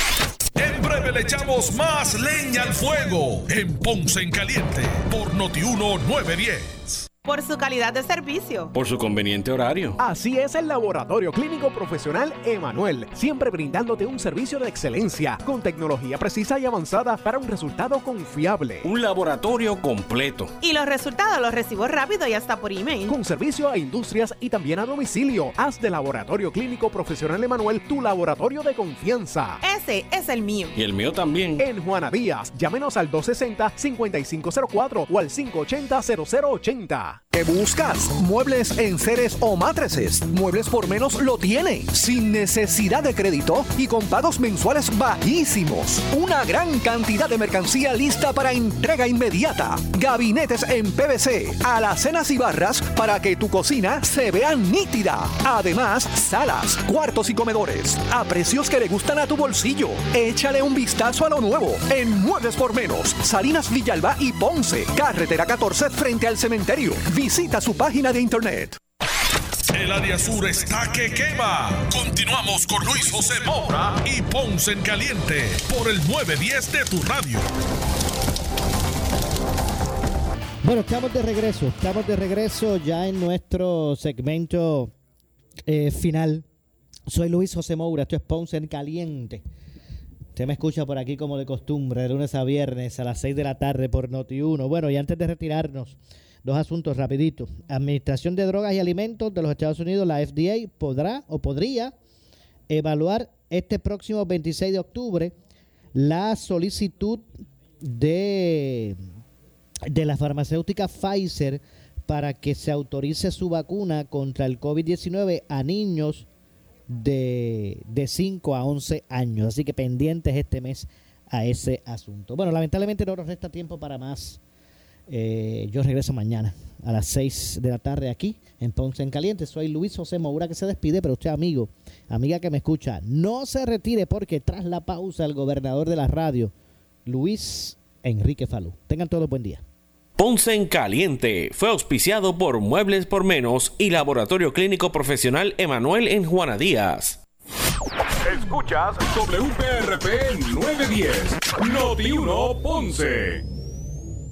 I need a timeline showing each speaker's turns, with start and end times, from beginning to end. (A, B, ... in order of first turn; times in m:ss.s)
0:00.6-0:07.1 A
0:07.2-0:08.7 B
0:08.7-0:10.0 C
0:10.0-0:18.9 D
0:18.8-0:20.5 C
0:20.6-0:23.1 B
0:23.1-0:29.6 D
0:29.6-0:30.7 B
0:30.8-0:31.6 C
0:31.6-0:37.2 D
0:37.3-1:08.8 E
1:09.7-1:17.4 A
1:20.6-1:24.9 F
1:25.6-1:26.4 F
1:27.1-1:29.4 F
1:30.3-1:41.9 F
1:42.7-1:45.3 F
1:45.9-1:49.0 F
1:49.8-1:56.3 F
1:56.9-2:04.4 F
2:05.1-2:16.5 F
2:17.0-2:19.6 F
2:20.2-2:27.2 C
2:28.2-2:33.4 G